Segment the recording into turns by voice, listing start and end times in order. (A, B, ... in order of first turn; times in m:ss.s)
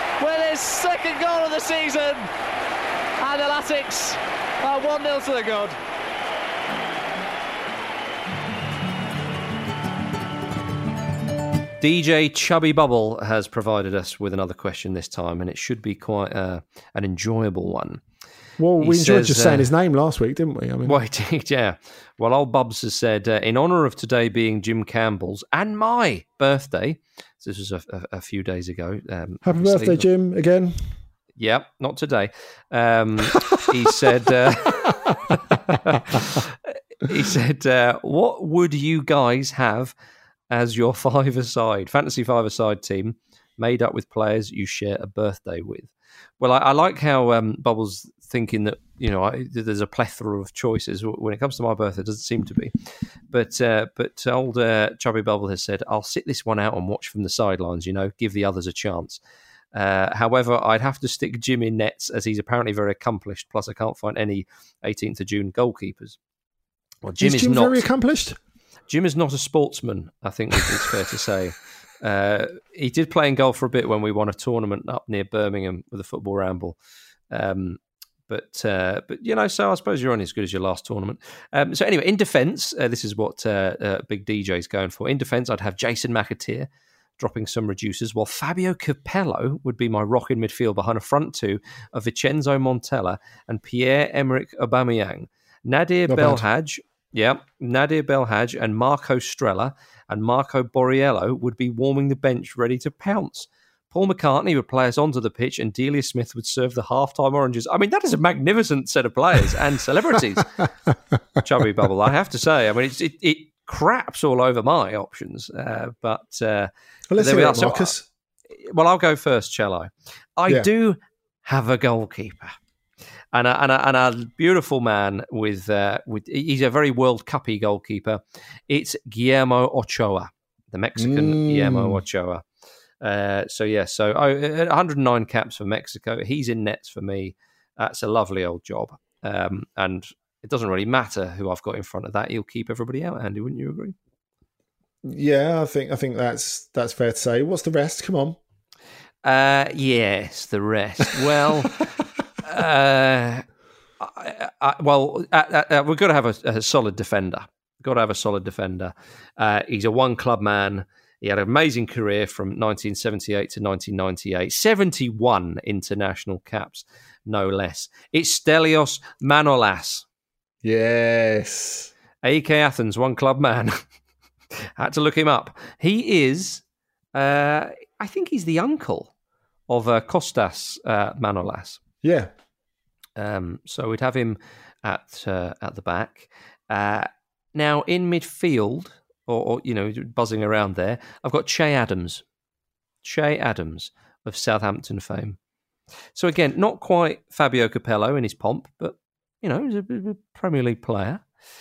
0:00.2-0:02.3 A
0:03.2-0:05.8 A
0:11.8-0:18.0 B
0:18.6-0:21.0 C
0:18.8-0:19.7 B
0:20.8-0:30.0 B
0:29.4-0:31.0 C
0:31.4-0:39.9 B
0:40.5-0:59.2 B
0:59.7-1:06.2 B
1:07.0-1:07.8 B
1:07.2-1:08.4 C
1:08.9-1:16.8 B
1:17.3-1:26.7 B
1:27.2-1:50.6 B
1:36.1-1:36.4 C
1:51.4-1:57.9 B
1:57.1-1:58.1 C
1:58.5-2:02.6 B
2:03.3-2:12.4 B
2:11.0-2:12.0 C
2:13.0-2:24.0 B
2:25.0-2:28.4 C
2:29.2-2:31.8 B
2:32.4-2:33.5 B
2:34.0-2:50.0 B
2:50.6-2:51.9 C
2:52.2-2:53.8 B
2:54.6-2:56.6 B
2:57.2-2:59.1 B
2:59.7-3:01.8 B
3:02.0-3:02.3 C
3:03.2-3:12.2 B
3:13.0-3:15.4 B
3:16.2-3:21.2 B